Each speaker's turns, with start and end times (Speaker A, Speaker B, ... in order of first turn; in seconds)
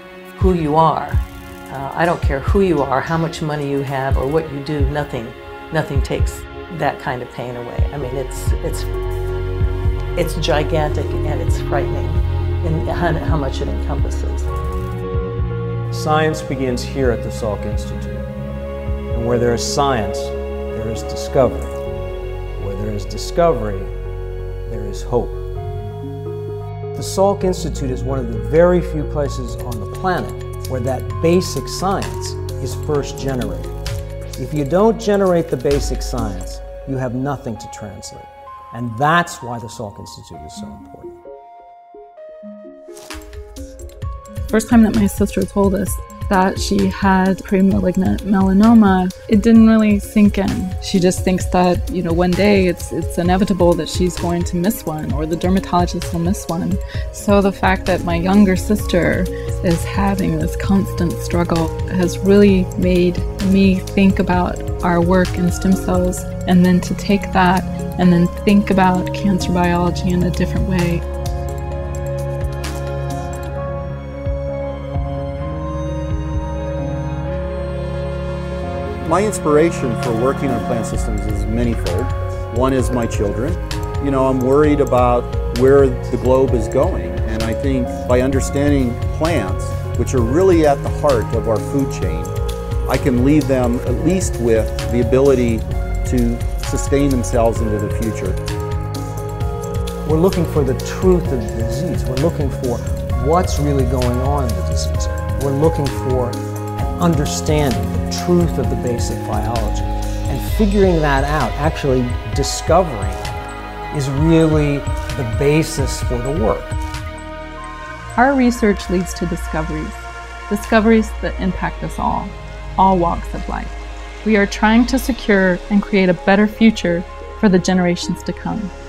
Speaker A: 0.3-8.9, 10.2-14.5
Speaker B: 15.9-18.3, 19.1-21.8, 22.6-23.9, 24.7-25.5, 26.9-33.8, 34.4-41.2, 100.0-113.3, 113.9-116.8
Speaker C: 44.5-71.0, 118.2-128.7
Speaker D: 79.0-98.4